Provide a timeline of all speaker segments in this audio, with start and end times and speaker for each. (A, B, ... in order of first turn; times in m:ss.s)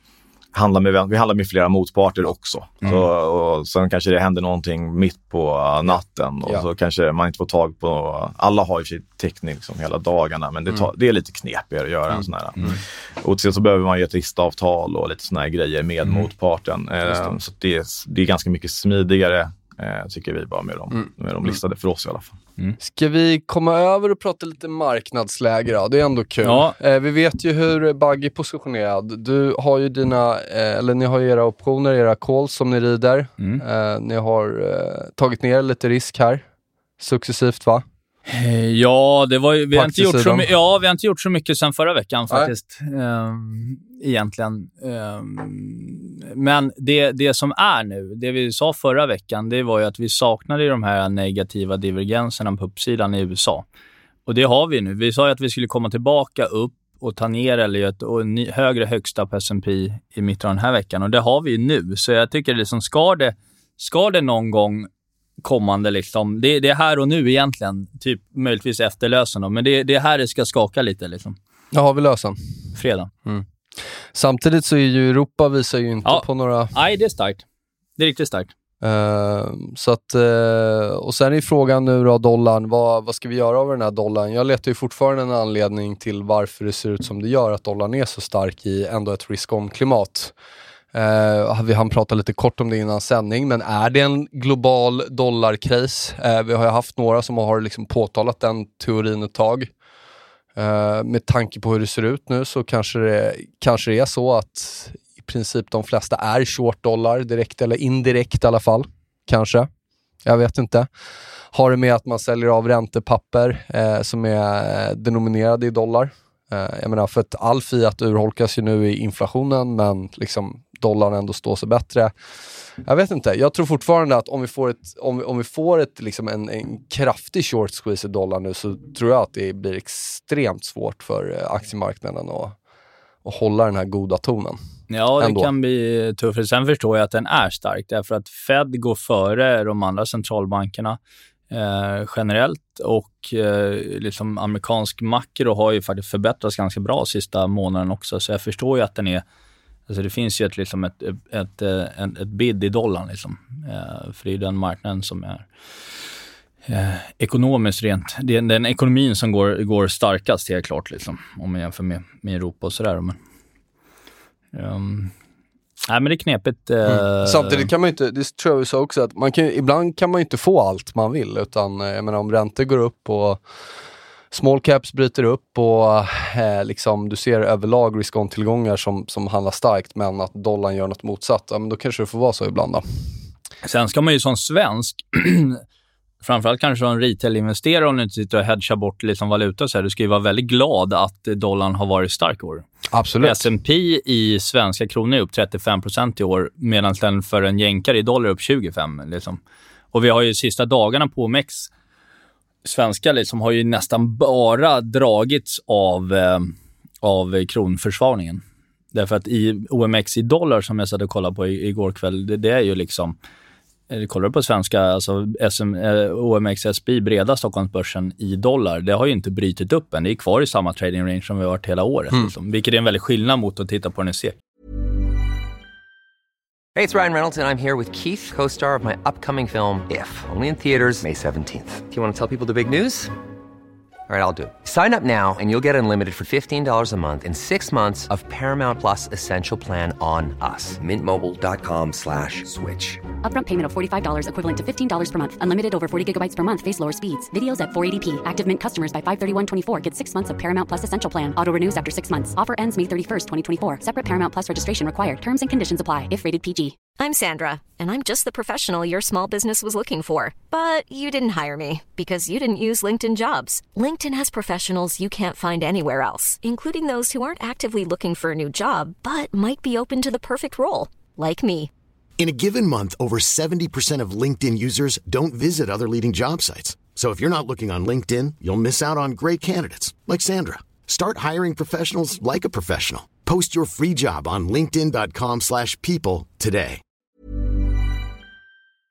0:00.5-0:22.4 A
0:12.1-0:12.7 B
0:22.8-0:36.4 B
0:26.4-0:26.8 C
0:37.0-0:37.8 B
0:38.3-0:53.6 C
0:39.7-0:40.5 B
0:54.3-1:04.9 C
1:05.4-1:11.4 C
1:11.7-1:12.4 B
1:12.8-1:13.1 C
1:14.1-1:16.7 B
1:16.0-1:17.4 C
1:18.0-1:18.5 C
1:18.8-1:30.3 B
1:30.9-1:39.7 B
1:40.6-1:49.7 B
1:50.2-1:50.9 B
1:51.5-2:02.1 B
2:02.8-2:12.5 B
2:13.2-2:14.6 B
2:14.9-2:21.0 C
2:15.2-2:15.5 B
2:21.5-2:29.2 C
2:29.9-2:35.5 C
2:36.7-2:43.2 C
2:44.5-2:45.1 C
2:45.9-2:47.7 C
2:46.8-2:53.4 B
2:54.3-3:02.8 B
3:03.6-3:05.6 C
3:06.2-3:12.6 C
3:12.9-3:13.4 B
3:13.2-3:19.4 C
3:19.9-3:21.7 C
3:22.6-3:28.4 C
3:28.9-3:33.2 C
3:33.9-3:44.4 C
3:46.7-3:53.1 D
3:54.1-4:03.0 D
4:03.2-4:16.8 E
4:17.0-4:31.7 F
4:32.2-4:46.8 G